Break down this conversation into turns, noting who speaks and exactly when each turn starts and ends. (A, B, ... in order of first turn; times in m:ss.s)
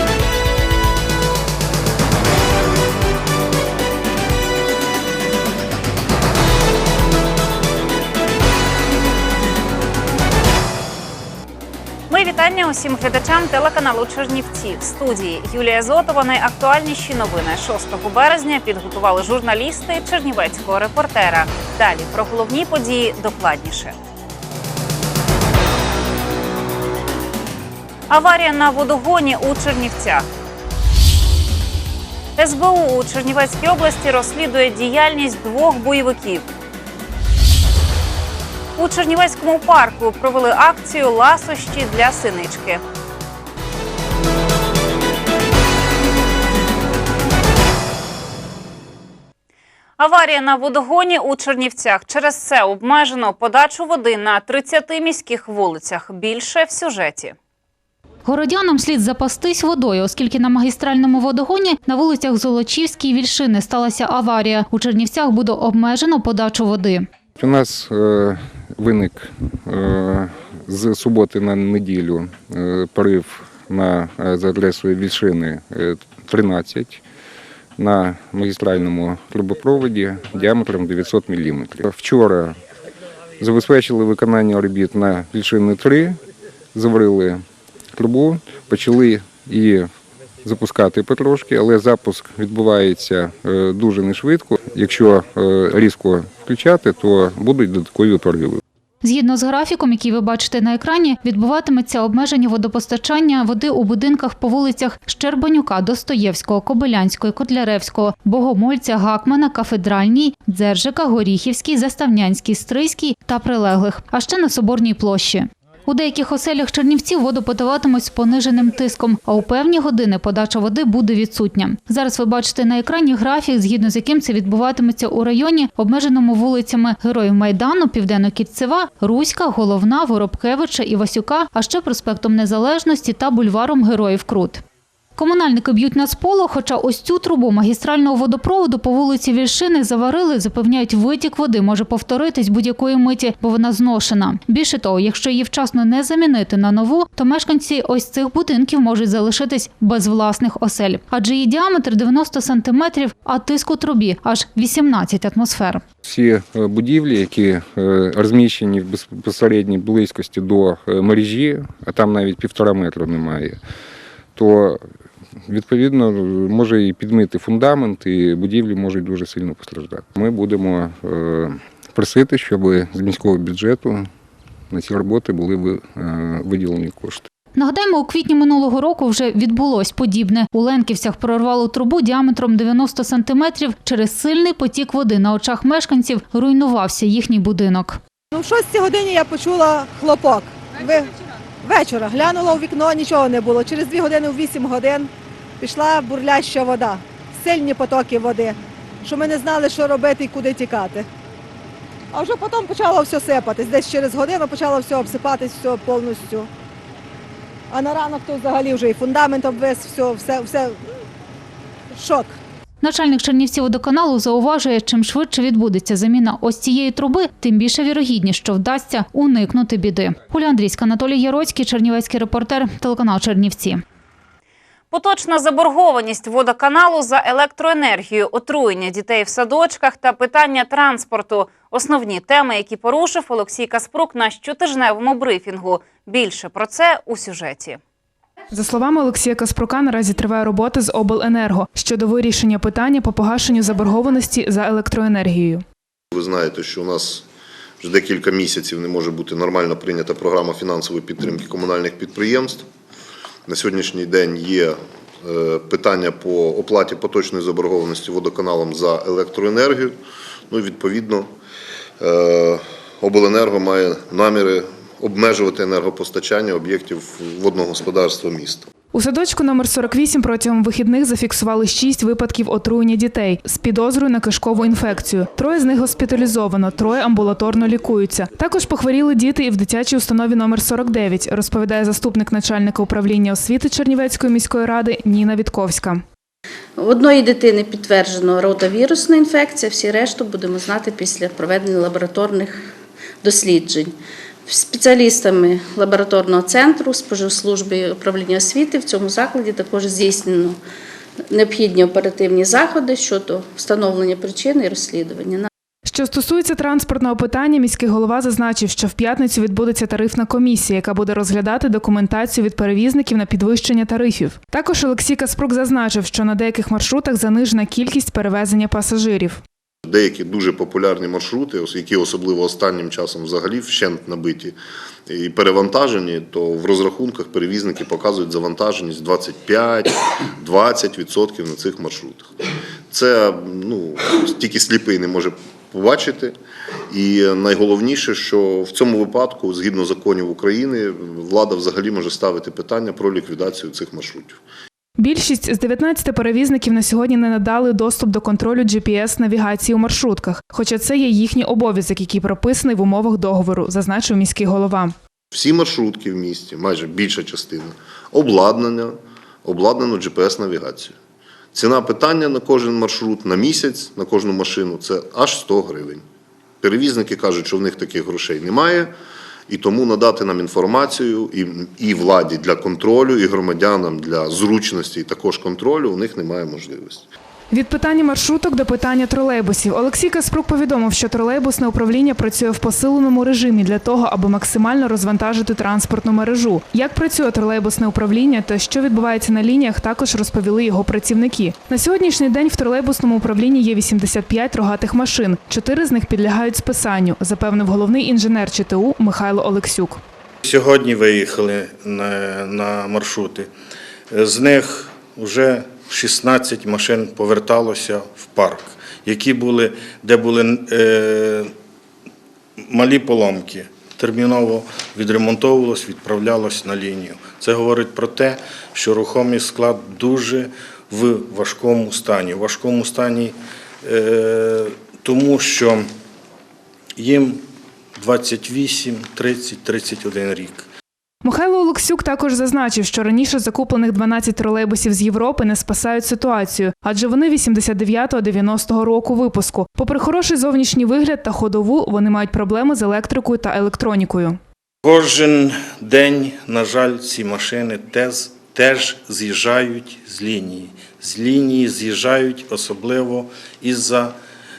0:12.1-0:23.9 A
0:28.1-0:30.2 A
0:32.4-0:36.4 A
0:38.8-0:42.8 A
0:50.0-0:57.3 A
0:58.2-1:07.1 B
1:07.4-1:17.0 C
1:17.8-1:22.6 C
1:23.4-1:26.2 C
1:26.7-1:27.4 C
1:28.0-1:29.9 C
1:30.4-1:38.6 C
1:39.0-2:14.6 B
2:15.2-2:35.8 B
2:36.0-2:43.6 C
2:44.4-2:44.8 C
2:45.5-2:54.1 C
2:54.7-2:57.3 C
2:57.5-3:08.0 B
3:08.3-3:11.1 D
3:11.6-3:21.1 D
3:22.1-3:26.5 D
3:27.7-3:30.8 D
3:31.9-3:32.3 D
3:32.8-3:43.8 B
3:44.9-3:57.8 A
3:58.5-4:05.6 E
4:06.1-4:07.2 F
4:07.8-4:12.6 F
4:13.5-4:20.0 F
4:20.5-4:21.3 F
4:22.0-4:28.7 F
4:28.9-4:46.0 E
4:46.8-4:52.6 G
4:53.2-4:53.9 G
4:54.4-5:00.6 G
5:01.3-5:05.5 G
5:05.8-5:19.4 E
5:19.8-5:24.6 F
5:25.1-5:32.4 F
5:32.9-5:36.3 F
5:36.9-5:44.4 F
5:45.0-5:54.9 E
5:55.3-6:00.9 F
6:01.5-6:06.0 F
6:06.6-6:08.9 F
6:09.5-6:17.1 F
6:17.5-6:40.0 E
6:40.4-6:43.5 H
6:44.1-6:51.5 H
6:52.7-7:05.8 H
7:07.0-7:07.4 H
7:08.0-7:10.7 H
7:11.2-7:24.4 E
7:24.8-7:34.1 H